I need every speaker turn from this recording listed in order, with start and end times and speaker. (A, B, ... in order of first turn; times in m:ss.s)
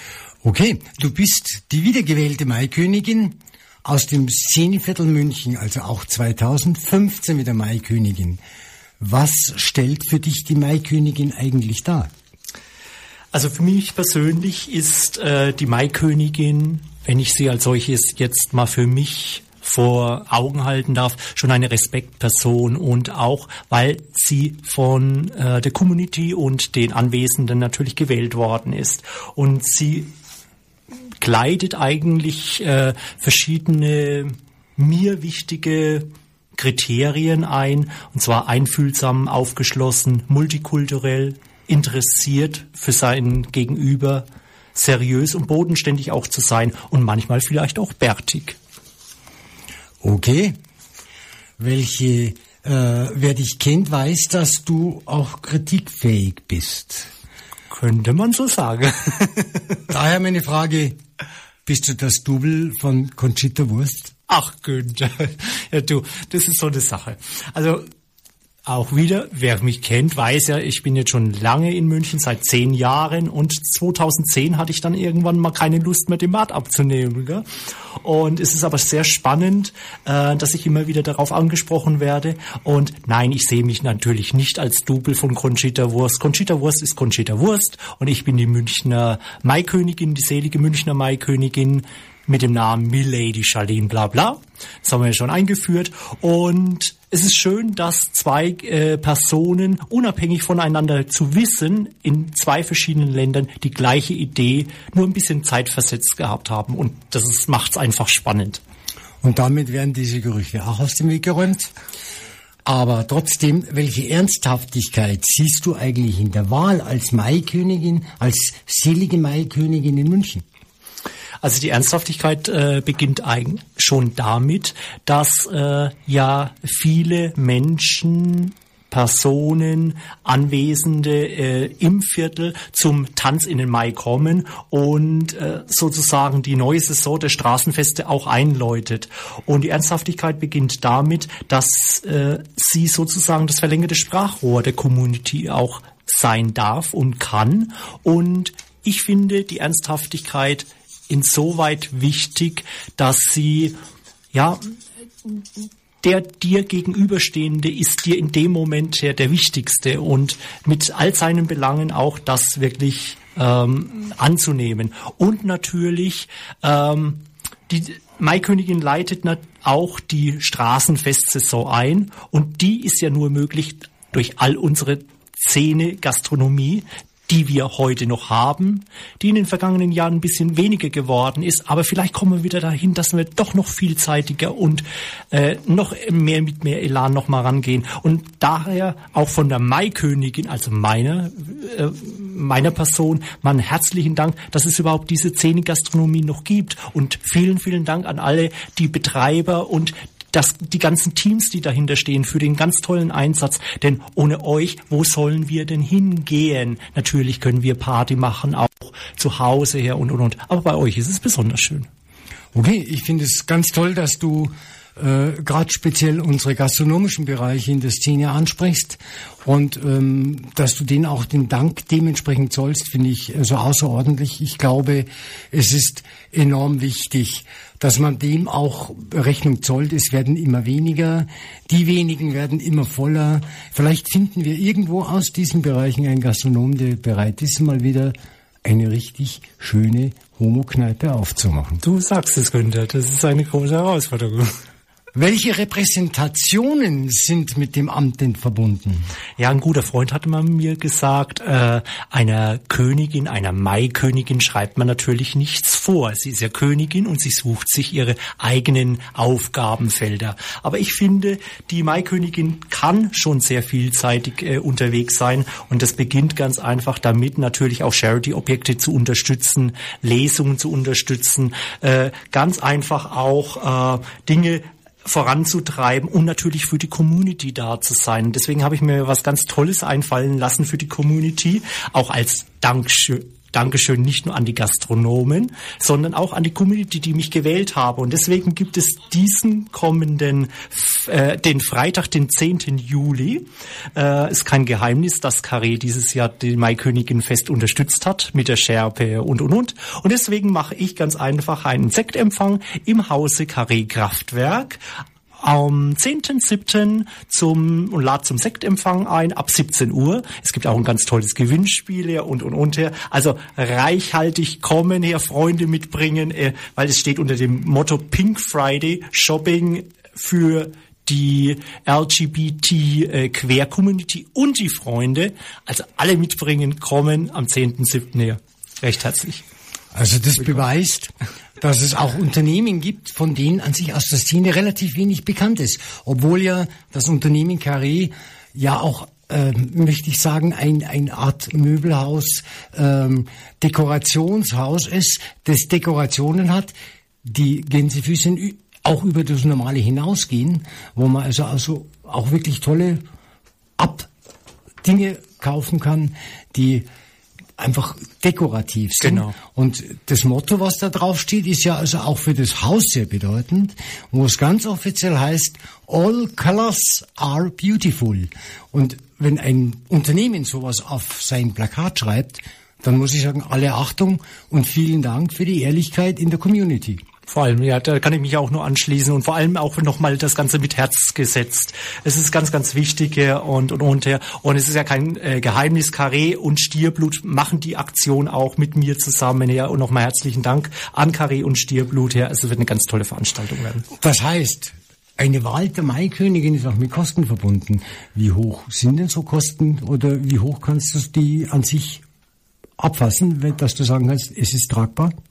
0:00.4-0:08.4 A
0:09.0-0:12.1 A
0:13.3-0:30.1 B
0:31.2-0:48.6 B
0:50.0-0:50.6 A
0:51.6-0:57.1 A
0:57.7-0:59.5 B
0:59.9-1:01.0 A
1:01.7-1:04.1 A
1:04.3-1:07.9 B
1:08.7-1:17.4 B
1:18.0-1:48.6 B
1:49.2-1:51.7 A
1:52.6-2:00.4 A
2:01.4-2:33.8 B
2:34.3-2:34.7 B
2:35.2-3:31.9 B
3:32.5-4:01.8 A
4:01.8-4:04.5 B
4:05.2-4:09.1 A
4:09.4-5:04.8 B
5:05.4-5:29.4 B
5:29.9-5:46.7 A
5:47.2-5:53.0 A
5:53.8-5:54.1 A
5:54.8-5:56.9 A
5:57.6-6:17.0 A
5:59.0-5:59.3 B
6:17.3-6:33.9 B
6:34.0-6:42.0 A
6:42.8-6:45.2 A